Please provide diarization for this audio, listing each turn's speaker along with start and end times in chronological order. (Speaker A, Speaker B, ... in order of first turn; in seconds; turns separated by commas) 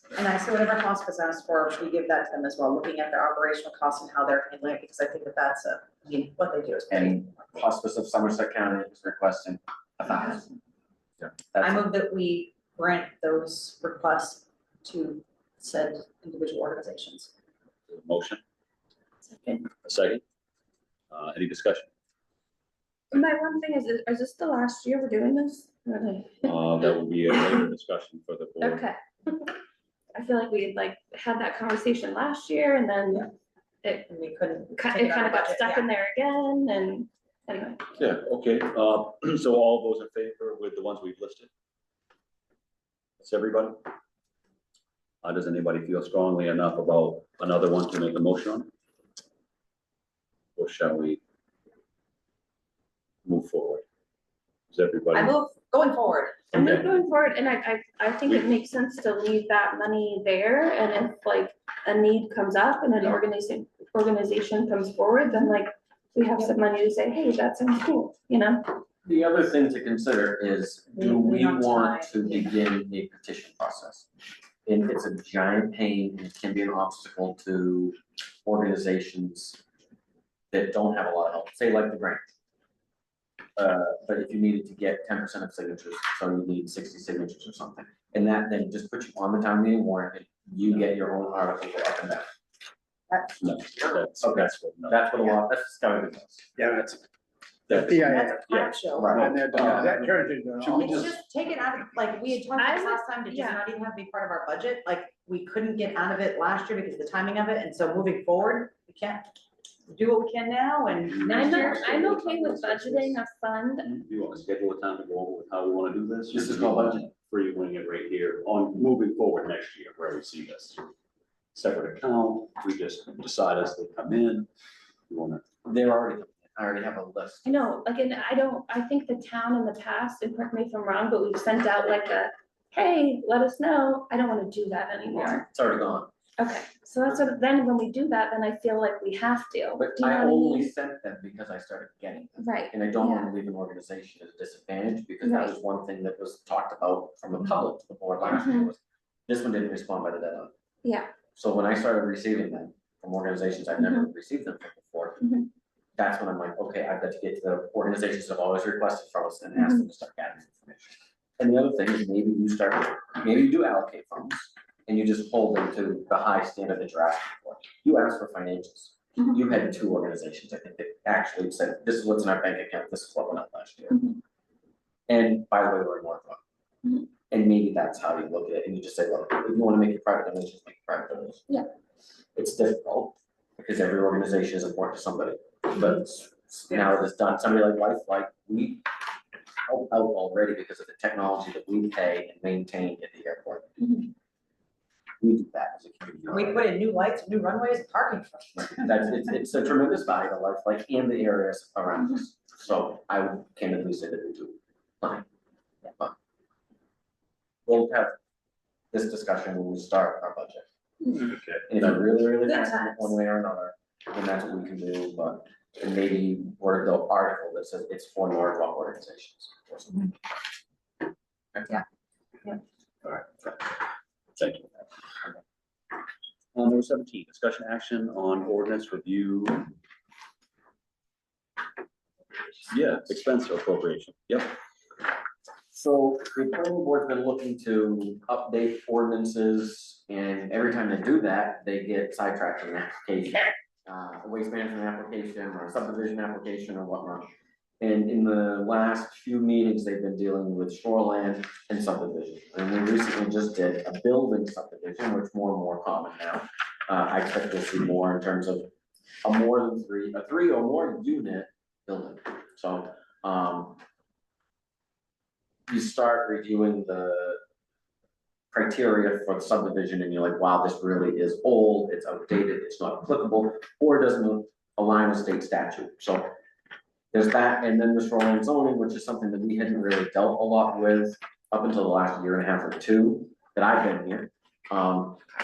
Speaker A: 0.2-7.3, Speaker B: 6.9-10.5, Speaker B: 11.2-11.8, Speaker A: 11.6-17.3, Speaker C: 17.9-18.4, Speaker C: 19.8-20.2, Speaker C: 21.1-21.9, Speaker D: 23.1-26.5, Speaker C: 26.4-28.9, Speaker D: 28.6-29.6, Speaker D: 30.1-33.3, Speaker A: 33.8-35.9, Speaker D: 34.8-37.9, Speaker C: 38.0-41.5, Speaker C: 43.2-43.8, Speaker C: 45.2-48.7, Speaker C: 50.6-51.2, Speaker C: 53.2-53.8, Speaker C: 54.7-55.3, Speaker A: 55.1-56.5, Speaker C: 56.5-56.9, Speaker D: 56.6-68.7, Speaker A: 65.3-65.6, Speaker B: 69.0-74.1, Speaker A: 71.0-72.5, Speaker B: 74.7-79.6, Speaker B: 80.5-82.3, Speaker B: 83.6-92.3, Speaker C: 93.4-95.0, Speaker B: 94.2-96.5, Speaker E: 96.6-97.0, Speaker C: 97.7-98.7, Speaker A: 97.8-99.2, Speaker E: 97.8-98.5, Speaker B: 99.0-101.2, Speaker E: 99.1-101.2, Speaker C: 99.4-99.9, Speaker A: 100.8-109.3, Speaker D: 102.6-103.6, Speaker A: 109.9-112.2, Speaker C: 111.0-113.2, Speaker D: 111.3-114.0, Speaker C: 113.9-120.8, Speaker B: 116.3-117.1, Speaker C: 121.5-124.5, Speaker C: 125.1-125.4, Speaker B: 125.7-127.7, Speaker D: 127.5-135.5, Speaker B: 135.5-136.1, Speaker D: 136.4-140.7, Speaker B: 139.8-150.5, Speaker D: 142.4-143.3, Speaker D: 145.2-145.6, Speaker D: 148.3-148.7, Speaker D: 150.8-151.1, Speaker B: 151.4-155.2, Speaker D: 153.8-154.1, Speaker D: 155.2-155.5, Speaker B: 156.0-174.0, Speaker D: 173.9-174.2, Speaker B: 175.1-176.4, Speaker B: 177.3-181.6, Speaker B: 182.3-188.8, Speaker B: 189.7-194.1, Speaker B: 195.2-196.7, Speaker A: 196.3-198.9, Speaker B: 198.7-205.3, Speaker B: 207.7-208.1, Speaker B: 208.9-210.7, Speaker C: 211.2-211.7, Speaker B: 211.7-220.1, Speaker D: 212.5-213.1, Speaker C: 223.1-223.6, Speaker C: 224.4-224.8, Speaker C: 226.6-229.7, Speaker C: 232.7-234.5, Speaker B: 235.7-247.3, Speaker B: 247.8-258.7, Speaker B: 259.2-263.8, Speaker B: 265.7-267.4, Speaker B: 268.5-276.3, Speaker B: 277.1-285.2